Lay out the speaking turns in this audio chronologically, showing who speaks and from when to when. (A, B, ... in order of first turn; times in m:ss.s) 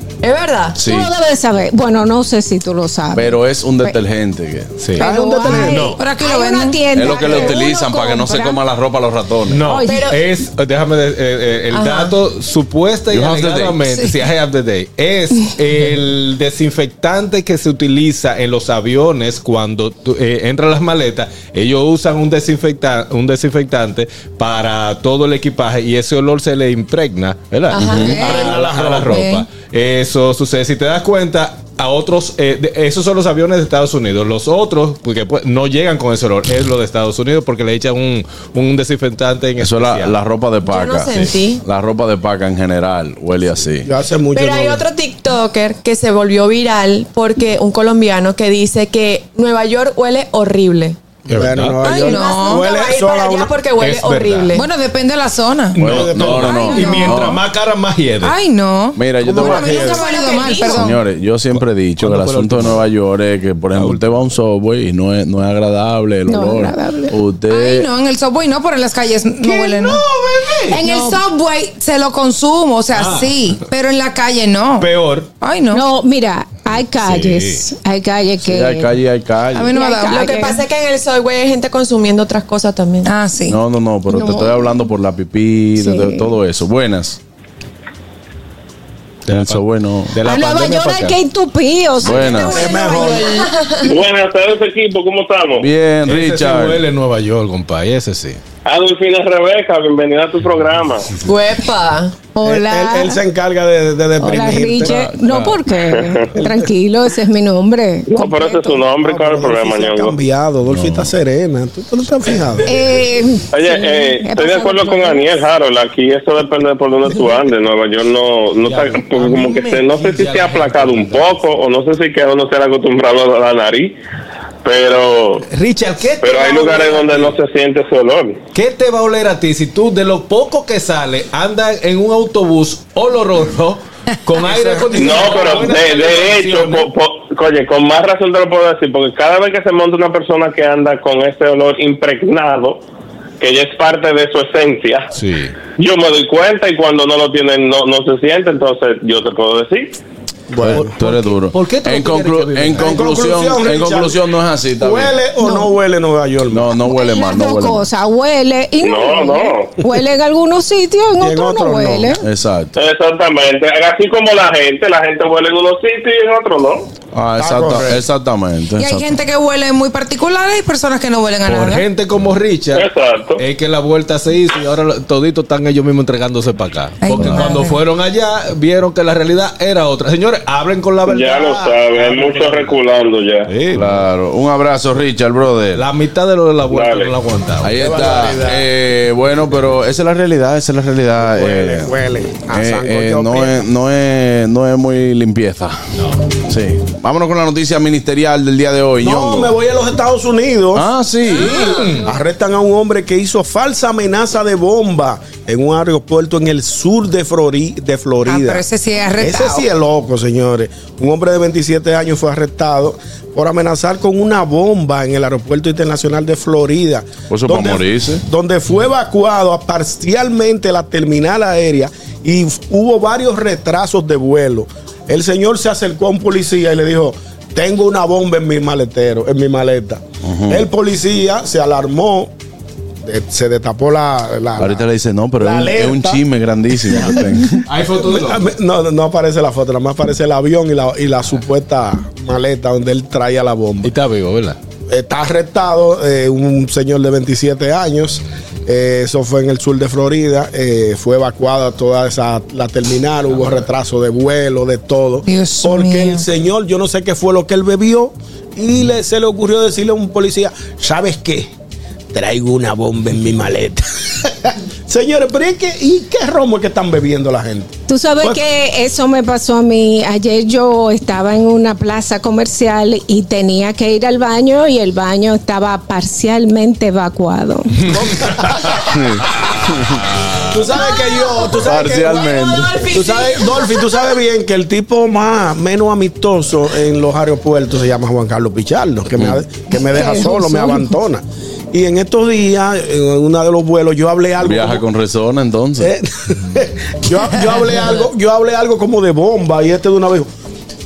0:00.2-0:00.8 A
0:00.8-0:01.1 B
0:00.8-0:04.0 C
0:03.1-0:04.8 B
0:04.8-0:06.0 D
0:05.0-0:08.6 C
0:05.0-0:05.9 E
0:05.5-0:07.2 F
0:06.9-0:09.6 B
0:09.5-0:40.1 D
0:09.6-0:10.1 C
0:09.8-0:10.2 A
0:11.7-0:12.1 A
0:13.1-0:13.8 B
0:27.7-0:28.2 A
0:27.8-0:28.5 F
0:27.9-0:29.2 E
0:29.1-0:29.4 F
0:39.6-0:43.9 B
0:40.6-0:41.6 A
0:43.8-0:44.8 E
0:44.3-0:51.0 A
0:51.3-0:51.8 D
0:51.3-0:53.6 E
0:51.8-0:52.7 F
0:51.8-0:54.6 A
0:53.8-0:54.6 D
0:54.5-0:55.8 F
0:55.7-0:58.3 D
0:55.8-0:57.4 B
0:55.9-0:56.4 E
0:56.4-0:57.2 F
0:58.2-1:01.0 F
0:59.0-0:59.9 B
0:59.2-1:00.1 E
0:59.8-1:00.8 A
1:00.6-1:07.9 B
1:01.5-1:02.8 D
1:03.7-1:04.2 D
1:06.3-1:07.2 C
1:07.5-1:10.0 F
1:09.6-1:10.8 D
1:10.7-1:11.2 C
1:10.8-1:14.9 F
1:12.9-1:13.3 D
1:14.8-1:15.3 D
1:15.4-1:15.8 F
1:15.7-1:18.9 C
1:17.0-1:17.6 D
1:18.4-1:19.7 B
1:19.5-1:20.4 F
1:19.7-1:20.6 C
1:20.1-1:23.1 A
1:23.0-1:23.6 F
1:23.5-1:27.2 B
1:24.1-1:24.9 C
1:25.8-1:26.4 C
1:29.3-1:31.2 D
1:29.3-1:30.1 B
1:30.2-1:33.4 C
1:32.0-1:32.7 B
1:32.5-1:33.4 E
1:32.6-1:33.9 A
1:33.8-1:35.7 G
1:35.6-1:36.8 B
1:36.0-1:38.4 D
1:38.6-1:41.1 G
1:41.2-1:42.2 A
1:42.4-1:43.2 C
1:42.4-1:45.0 E
1:44.2-1:48.9 C
1:44.8-1:45.6 D
1:48.1-1:50.2 G
1:49.0-1:52.7 E
1:52.6-1:55.4 C
1:53.5-2:03.9 G
1:58.6-2:01.5 D
2:04.6-2:05.4 G
2:05.5-2:07.4 D
2:06.2-2:08.4 G
2:08.5-2:16.9 D
2:14.4-2:15.6 E
2:14.9-2:22.8 G
2:23.4-2:25.1 G
2:25.1-2:25.5 D
2:25.8-2:29.9 G
2:30.5-2:30.9 E
2:30.6-2:35.1 B
2:30.7-2:33.1 D
2:32.8-2:34.2 E
2:34.8-2:36.7 E
2:35.4-2:35.7 C
2:36.5-2:37.8 B
2:36.8-2:42.2 C
2:38.8-2:39.7 G
2:41.2-2:42.1 E
2:42.2-2:42.7 B
2:42.8-2:46.9 G
2:47.1-2:49.1 B
2:47.4-2:48.0 E
2:48.8-2:51.8 F
2:51.4-3:02.8 D
2:52.7-2:53.4 G
2:57.0-2:57.8 F
3:01.0-3:03.5 G
3:03.5-3:03.9 D
3:03.7-3:05.8 B
3:05.7-3:07.9 D
3:06.7-3:07.1 G
3:07.6-3:11.9 B
3:07.8-3:08.6 E
3:11.2-3:13.6 E
3:12.5-3:15.8 B
3:16.5-3:19.5 B
3:19.0-3:28.6 E
3:20.7-3:21.7 B
3:21.6-3:22.0 D
3:28.3-3:29.6 F
3:29.2-3:52.3 E
3:37.3-3:38.2 B
3:50.2-3:50.6 B
3:53.0-3:54.8 E
3:54.6-3:57.6 B
3:55.4-3:56.2 E
3:56.9-3:57.2 E
3:57.7-3:58.4 D
3:58.0-4:03.9 E
4:03.8-4:04.6 D
4:04.9-4:21.5 E
4:15.2-4:16.2 F
4:22.1-4:28.4 E
4:27.9-4:37.9 C
4:37.9-4:38.7 E
4:38.8-4:40.4 B
4:40.5-4:42.4 E
4:40.8-4:44.0 A
4:41.6-4:42.7 B
4:42.9-4:54.8 E
4:49.2-4:49.4 B
4:49.7-4:50.9 C
4:54.4-4:55.9 B
4:55.8-5:00.3 E